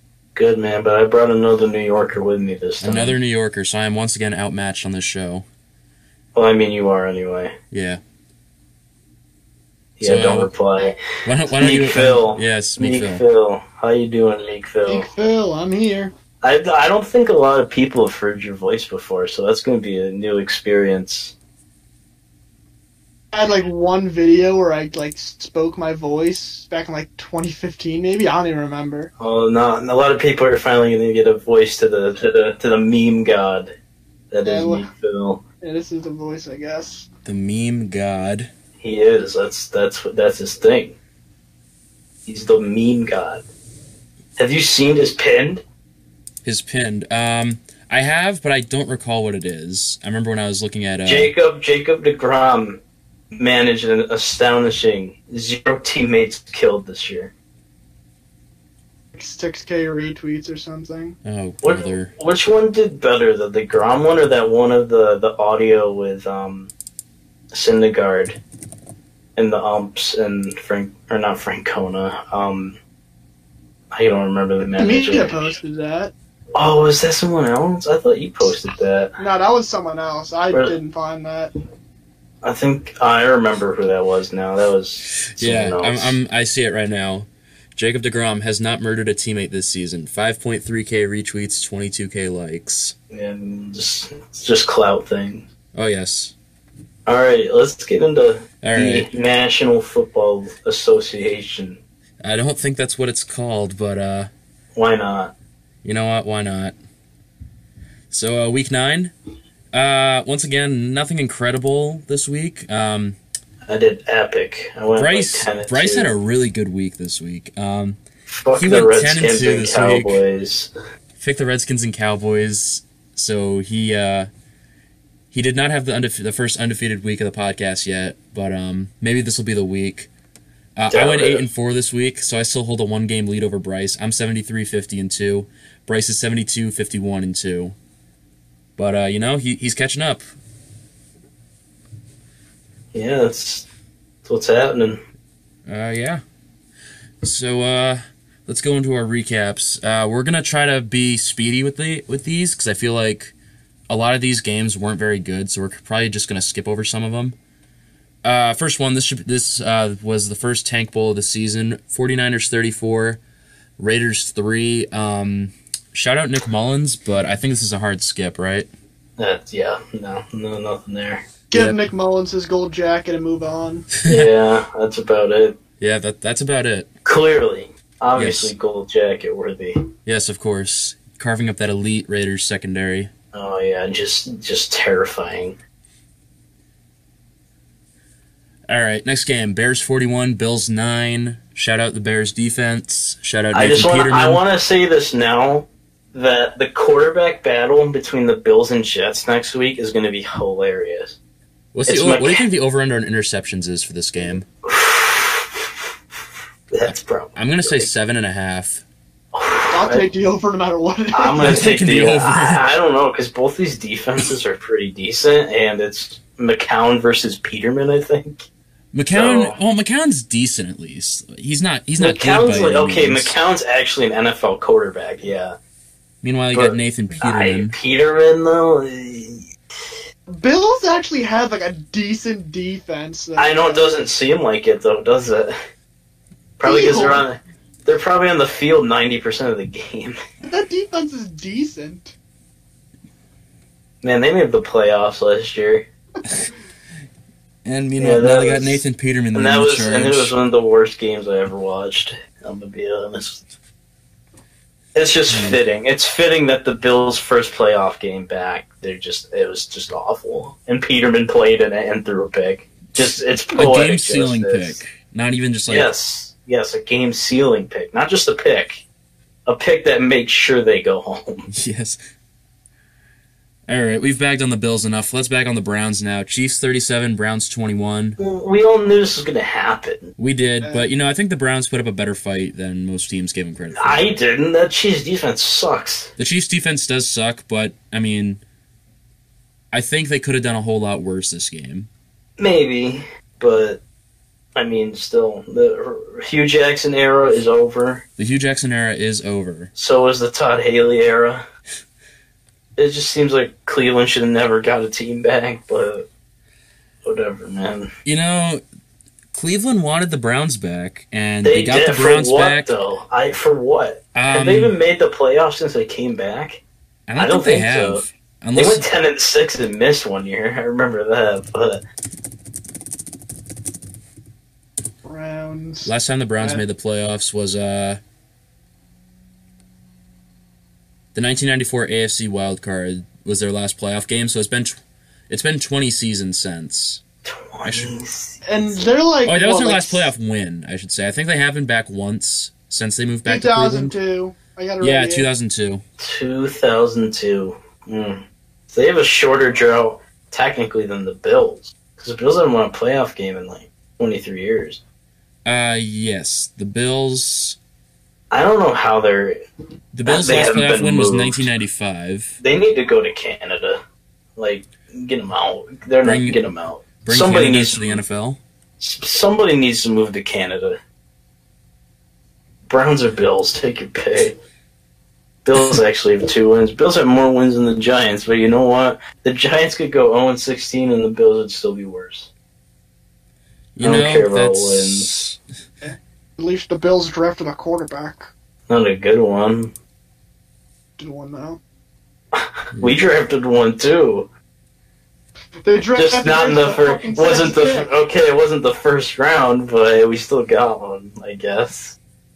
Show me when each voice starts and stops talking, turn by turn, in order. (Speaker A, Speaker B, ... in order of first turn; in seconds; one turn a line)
Speaker A: 0.3-3.2
Speaker B: 2.8-5.5
Speaker A: 6.3-7.6
Speaker B: 7.7-8.0
Speaker A: 10.0-11.0
Speaker B: 10.0-10.5
Speaker B: 11.2-13.2
Speaker A: 11.5-15.1
Speaker C: 14.9-16.1
Speaker A: 16.4-21.4
Speaker C: 23.3-29.1
Speaker A: 29.2-33.7
Speaker A: 34.3-35.4
Speaker C: 34.5-34.9
Speaker C: 35.6-37.1
Speaker B: 37.2-38.5
Speaker A: 38.8-41.0
Speaker A: 42.3-43.5
Speaker A: 44.4-45.6
Speaker B: 46.4-51.3
Speaker A: 51.0-52.8
Speaker A: 53.3-57.3
Speaker C: 59.1-61.2
Speaker B: 61.2-62.1
Speaker A: 61.6-66.7
Speaker A: 67.5-68.4
Speaker A: 69.4-72.8
Speaker A: 73.9-75.4
Speaker C: 74.8-76.1
Speaker A: 76.5-79.2
Speaker C: 79.2-81.5
Speaker A: 80.5-80.8
Speaker A: 82.4-86.2
Speaker B: 85.2-93.0
Speaker A: 93.1-95.5
Speaker B: 95.7-96.3
Speaker A: 97.1-101.8
Speaker B: 98.6-99.1
Speaker B: 102.2-104.3
Speaker A: 104.8-105.3
Speaker B: 105.8-106.8
Speaker B: 108.1-109.1
Speaker B: 109.7-113.2
Speaker A: 113.7-116.2
Speaker B: 115.0-118.0
Speaker A: 118.3-120.7
Speaker B: 118.6-120.2
Speaker B: 121.2-124.3
Speaker B: 125.3-130.1
Speaker B: 130.8-137.8
Speaker A: 130.9-131.4
Speaker B: 138.8-140.2
Speaker A: 142.9-143.7
Speaker A: 144.2-145.0
Speaker B: 145.7-146.2
Speaker B: 147.2-153.3
Speaker B: 153.9-157.3
Speaker B: 158.2-163.2
Speaker B: 163.8-168.7
Speaker A: 169.2-171.3
Speaker C: 171.5-173.9
Speaker B: 171.5-171.8
Speaker B: 174.0-174.3
Speaker A: 174.1-175.6
Speaker B: 175.8-176.9
Speaker A: 177.1-179.8
Speaker B: 178.2-178.5
Speaker B: 180.1-183.1
Speaker A: 183.3-185.6
Speaker B: 188.7-194.4
Speaker A: 193.5-201.2
Speaker B: 201.7-204.5
Speaker A: 201.9-202.4
Speaker A: 204.6-205.8
Speaker A: 206.7-207.9
Speaker B: 207.4-208.8
Speaker A: 209.3-210.1
Speaker C: 209.7-211.7
Speaker A: 211.1-218.5
Speaker B: 211.4-212.6
Speaker B: 218.9-223.4
Speaker A: 219.1-219.6
Speaker A: 222.0-225.6
Speaker B: 226.2-227.8
Speaker A: 226.5-229.4
Speaker C: 230.3-234.1
Speaker A: 233.4-235.6
Speaker A: 236.6-240.2
Speaker C: 236.6-237.2
Speaker C: 240.4-242.1
Speaker A: 244.0-245.9
Speaker B: 247.7-250.3
Speaker A: 248.0-248.8
Speaker A: 249.3-253.4
Speaker A: 254.9-264.8
Speaker B: 255.3-255.6
Speaker B: 263.5-265.9
Speaker A: 265.7-268.9
Speaker A: 269.5-271.5
Speaker B: 271.5-272.0
Speaker B: 273.7-278.2
Speaker A: 278.2-280.1
Speaker B: 280.2-284.1
Speaker C: 280.6-280.9
Speaker A: 283.8-286.1
Speaker B: 286.2-288.4
Speaker B: 289.7-291.9
Speaker A: 292.4-293.8
Speaker A: 294.6-298.1
Speaker B: 298.2-299.7
Speaker A: 299.8-301.4
Speaker A: 302.8-306.1
Speaker A: 307.0-307.9
Speaker B: 308.1-308.6
Speaker B: 309.3-312.7
Speaker A: 311.4-316.6
Speaker B: 314.1-314.8
Speaker B: 317.1-318.9
Speaker A: 317.2-321.8
Speaker C: 325.0-326.6
Speaker B: 325.9-328.0
Speaker B: 331.1-334.8
Speaker B: 335.3-337.0
Speaker A: 337.2-338.4
Speaker B: 337.6-337.9
Speaker C: 338.4-340.1
Speaker B: 339.2-343.9
Speaker C: 343.3-345.3
Speaker B: 344.8-345.8
Speaker A: 346.0-354.8
Speaker B: 355.4-357.6
Speaker A: 358.3-359.4
Speaker B: 359.9-362.4
Speaker A: 360.1-361.5
Speaker A: 362.4-363.8
Speaker A: 364.4-368.0
Speaker B: 366.0-366.4
Speaker B: 367.1-368.4
Speaker A: 368.8-370.8
Speaker A: 372.7-374.4
Speaker A: 375.4-382.3
Speaker B: 383.8-385.4
Speaker A: 383.8-385.4
Speaker C: 385.8-388.3
Speaker A: 388.7-389.7
Speaker C: 391.0-391.6
Speaker A: 392.3-394.3
Speaker B: 392.7-393.0
Speaker C: 395.6-397.9
Speaker A: 395.9-402.0